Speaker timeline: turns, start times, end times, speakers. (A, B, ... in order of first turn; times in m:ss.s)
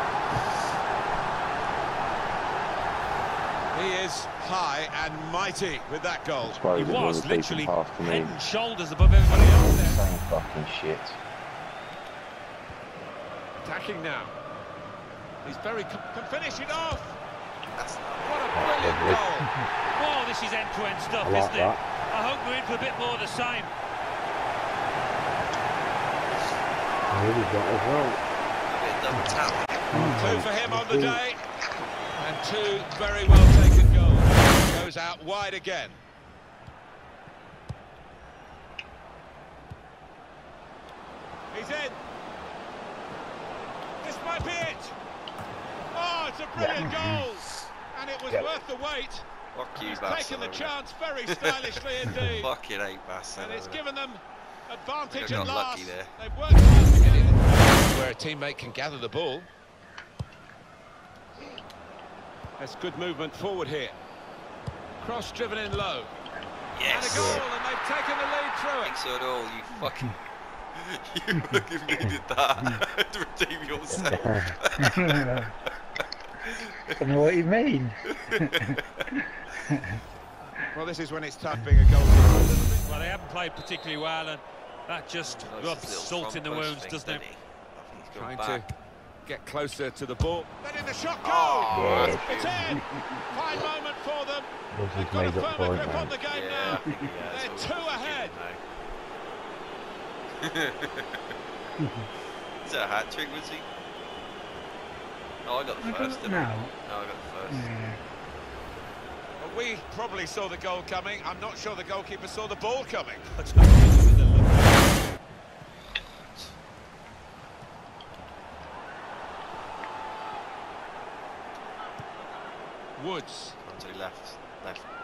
0:03.7-0:06.6 A
0:06.4-0:08.4 B
0:06.7-0:09.8 C
0:09.3-0:10.0 A
0:09.5-0:11.2 B
0:13.6-0:14.3 A
0:15.4-0:17.2 A
0:17.7-0:18.8 D
0:18.2-0:19.5 A
0:18.5-0:19.2 E
0:19.9-0:23.7 C
0:21.2-0:21.8 E
0:27.1-0:28.2 E
0:28.7-0:29.9 D
0:29.9-0:31.2 E
0:29.9-0:30.2 F
0:30.1-0:31.4 A
0:32.2-0:36.0 A
0:41.5-0:42.0 A
0:44.0-0:45.0 A
0:45.9-0:49.3 A
0:46.6-0:47.2 E
0:49.5-0:53.8 D
0:49.8-0:52.5 A
0:53.4-0:59.5 A
0:55.1-0:56.2 D
1:02.6-1:04.0 A
1:05.0-1:06.1 A
1:06.7-1:07.3 D
1:06.9-1:08.9 A
1:07.1-1:07.4 E
1:08.8-1:10.2 D
1:10.7-1:15.4 D
1:14.0-1:14.5 E
1:14.8-1:15.5 F
1:16.4-1:17.1 D
1:17.0-1:20.0 F
1:18.1-1:19.0 D
1:20.7-1:22.9 A
1:22.8-1:27.2 C
1:25.4-1:28.6 D
1:28.1-1:28.7 A
1:29.2-1:38.4 A
1:31.2-1:32.2 D
1:31.7-1:32.8 F
1:31.8-1:32.1 E
1:34.7-1:36.2 E
1:36.3-1:38.6 D
1:40.4-1:41.3 D
1:41.8-1:42.1 F
1:42.6-1:43.7 D
1:45.4-1:47.7 D
1:45.8-1:46.7 F
1:47.5-1:48.0 F
1:49.4-1:53.3 A
1:53.3-1:55.0 C
2:03.0-2:03.6 A
2:03.6-2:04.8 D